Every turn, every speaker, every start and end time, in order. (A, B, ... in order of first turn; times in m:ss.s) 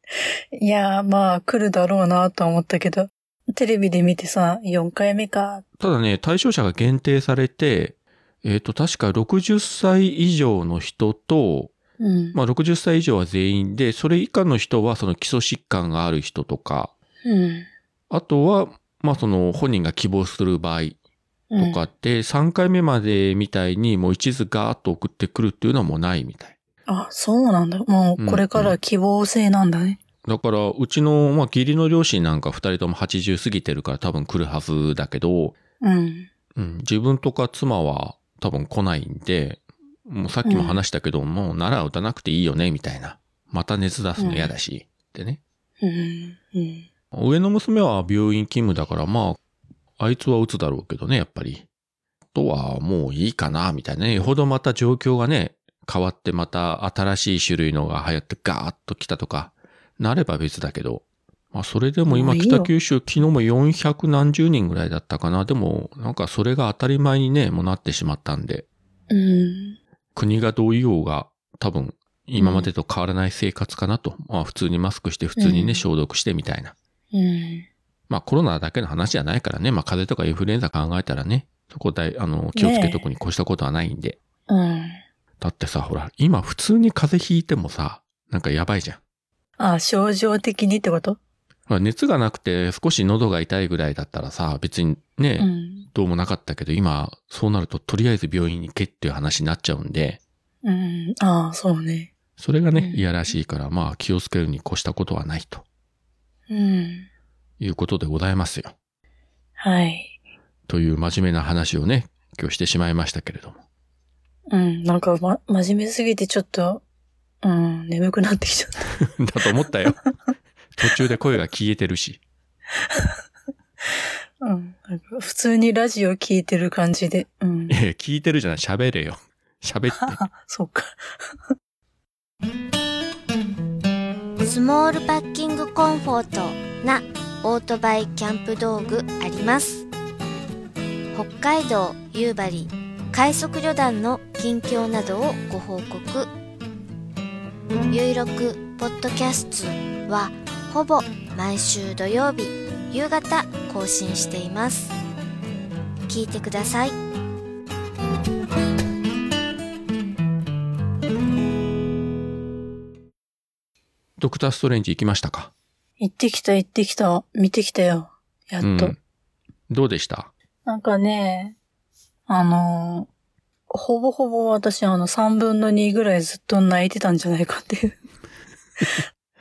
0:00.5-0:05.6 A
0:05.8-0:11.7 B
0:12.0-0:12.4 A
0:12.3-0:16.9 B
0:17.2-0:17.7 A
0:18.1-0:21.0 B
0:21.5-0:21.8 A
0:21.6-0:26.6 B
0:26.9-0:30.0 A
0:28.2-0:28.8 B
0:30.2-0:35.5 B
0:35.8-0:36.3 A
0:36.6-0:45.4 B
0:40.4-0:40.8 A
0:44.2-0:44.5 A
0:45.8-0:46.8 A
0:47.1-0:49.4 B
0:50.0-0:51.7 B
0:52.3-1:08.7 B
1:02.1-1:02.7 A
1:09.1-1:09.8 A
1:10.2-1:16.8 B
1:12.4-1:12.7 A
1:15.4-1:15.8 A
1:17.1-1:17.7 A
1:18.1-1:24.2 B
1:22.6-1:23.0 A
1:24.5-1:25.0 A
1:25.4-1:29.0 B
1:29.6-1:31.2 A
1:31.7-1:40.2 B
1:35.4-1:35.9 A
1:40.6-1:42.1 A
1:42.4-1:45.6 B
1:42.8-1:43.0 A
1:46.5-1:47.1 A
1:47.6-1:48.7 B
1:49.6-1:50.2 A
1:50.7-1:53.6 B
1:54.5-1:56.8 A
1:57.4-1:58.9 A
1:59.0-2:00.0 B
2:00.8-2:02.2 B
2:04.4-2:07.8 A
2:07.7-2:10.2 B
2:10.0-2:11.0 A
2:14.4-2:19.9 C
2:21.1-2:26.3 C
2:27.9-2:35.0 C
2:36.1-2:37.0 C
2:44.2-2:45.5 B
2:46.0-2:49.0 A
2:48.6-2:49.0 B
2:49.7-2:50.3 B
2:50.7-2:51.6 A
2:52.3-2:53.1 A
2:53.7-2:58.0 A